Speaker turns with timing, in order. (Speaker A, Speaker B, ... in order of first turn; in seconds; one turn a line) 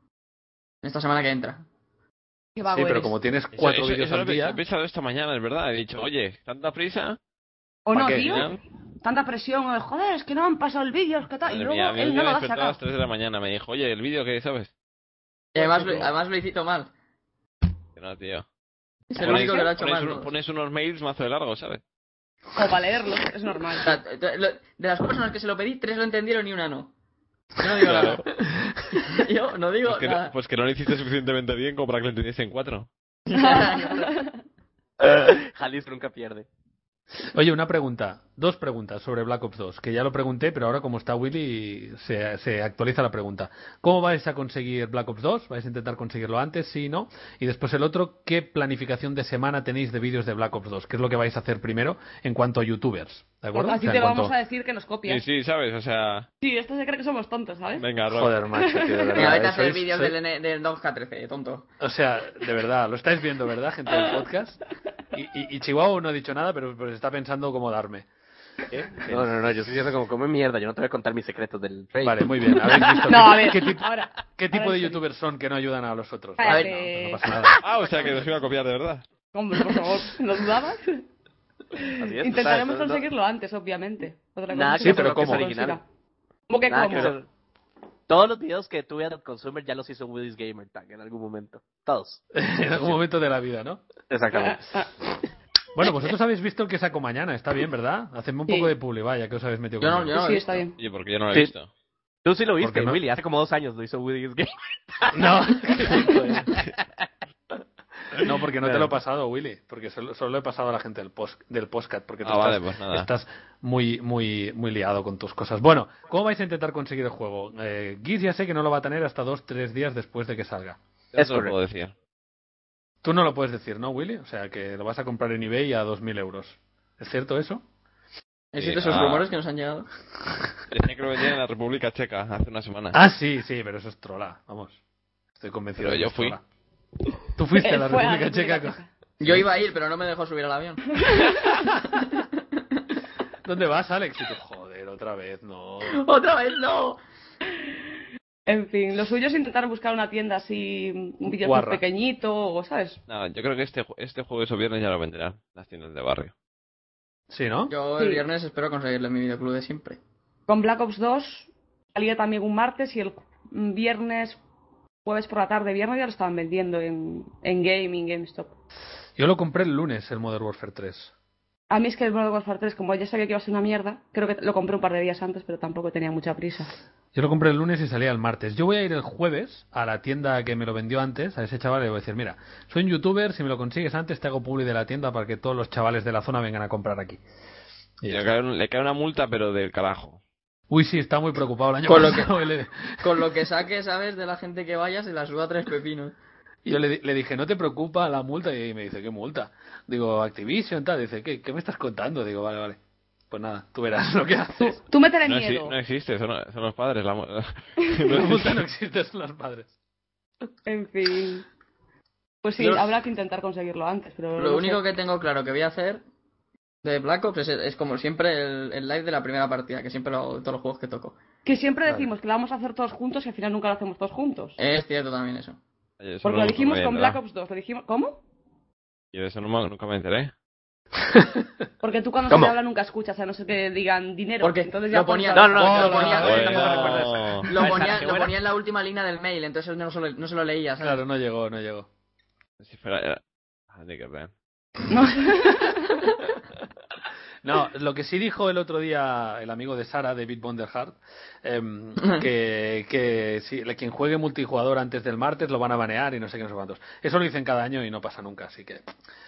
Speaker A: 0.8-1.6
Speaker B: 2.5-3.1
Speaker C: 2.6-4.6
Speaker D: 3.5-7.2
Speaker B: 7.8-12.8
Speaker C: 7.9-8.4
Speaker D: 8.0-8.6
Speaker D: 11.5-14.7
Speaker A: 15.5-16.9
Speaker D: 17.9-18.4
Speaker A: 19.1-20.3
Speaker D: 19.1-21.8
Speaker B: 19.2-19.7
Speaker B: 22.5-23.9
Speaker A: 23.8-26.9
Speaker A: 27.6-28.3
Speaker D: 27.8-28.2
Speaker A: 28.9-30.3
Speaker D: 29.8-32.9
Speaker A: 33.3-34.1
Speaker B: 33.4-34.3
Speaker E: 35.0-36.5
Speaker C: 37.3-54.3
Speaker B: 53.5-55.2
Speaker D: 55.0-56.3
Speaker B: 56.4-57.9
Speaker D: 57.8-58.4
Speaker C: 58.1-60.1
Speaker B: 58.5-59.3
Speaker A: 59.1-61.7
Speaker C: 61.8-64.6
Speaker C: 65.1-68.1
Speaker E: 68.7-73.3
Speaker C: 68.8-69.4
Speaker C: 72.0-77.5
Speaker B: 72.9-75.0
Speaker B: 76.4-77.3
Speaker D: 77.6-79.0
Speaker B: 79.3-81.0
Speaker B: 81.8-85.8
Speaker E: 82.0-83.0
Speaker E: 84.5-85.8
Speaker C: 84.8-85.5
Speaker B: 86.5-87.2
Speaker E: 86.7-87.3
Speaker E: 88.1-93.0
Speaker C: 92.3-93.8
Speaker E: 94.1-94.8
Speaker B: 94.3-94.9
Speaker C: 95.7-100.2
Speaker A: 99.8-100.6
Speaker B: 100.1-100.7
Speaker D: 100.8-101.7
Speaker E: 102.2-106.7
Speaker C: 102.6-103.0
Speaker C: 105.1-106.5
Speaker C: 108.2-120.8
Speaker E: 108.6-108.9
Speaker D: 112.2-113.1
Speaker D: 121.1-121.9
Speaker E: 121.2-121.5
Speaker C: 123.0-127.6
Speaker A: 128.5-129.9
Speaker D: 128.6-129.3
Speaker D: 130.7-133.0
Speaker C: 132.9-134.8
Speaker C: 135.3-136.4
Speaker D: 135.8-136.4
Speaker C: 137.3-139.4
Speaker B: 137.6-138.9
Speaker A: 139.2-140.8
Speaker B: 141.0-141.4
Speaker A: 141.7-142.3
Speaker C: 143.4-146.0
Speaker A: 145.8-147.0
Speaker B: 148.5-153.0
Speaker C: 151.4-151.8
Speaker D: 153.1-156.3
Speaker C: 157.3-157.7
Speaker A: 157.7-160.0
Speaker B: 158.0-158.2
Speaker B: 160.5-164.4
Speaker B: 165.0-168.5
Speaker C: 169.2-171.1
Speaker B: 171.7-176.7
Speaker C: 177.1-187.2
Speaker C: 188.0-188.3
Speaker D: 188.1-190.2
Speaker C: 190.7-193.4
Speaker A: 191.9-192.3
Speaker A: 193.0-196.1
Speaker C: 196.6-202.8
Speaker C: 203.3-204.8
Speaker B: 204.6-205.8
Speaker D: 205.2-208.6
Speaker C: 208.1-209.7
Speaker B: 210.7-211.4
Speaker B: 212.4-214.8
Speaker A: 212.6-212.8
Speaker A: 214.4-216.0
Speaker A: 216.8-221.2
Speaker B: 221.4-224.6
Speaker A: 224.6-225.6
Speaker D: 226.0-227.2
Speaker B: 226.2-228.2
Speaker D: 229.1-230.3
Speaker B: 231.8-236.0
Speaker E: 232.3-232.5
Speaker A: 234.4-241.0
Speaker E: 235.3-238.4
Speaker C: 235.6-237.4
Speaker D: 236.2-237.5
Speaker C: 240.8-241.9
Speaker D: 242.6-243.2
Speaker D: 243.7-244.3
Speaker B: 244.9-246.0
Speaker C: 247.4-258.9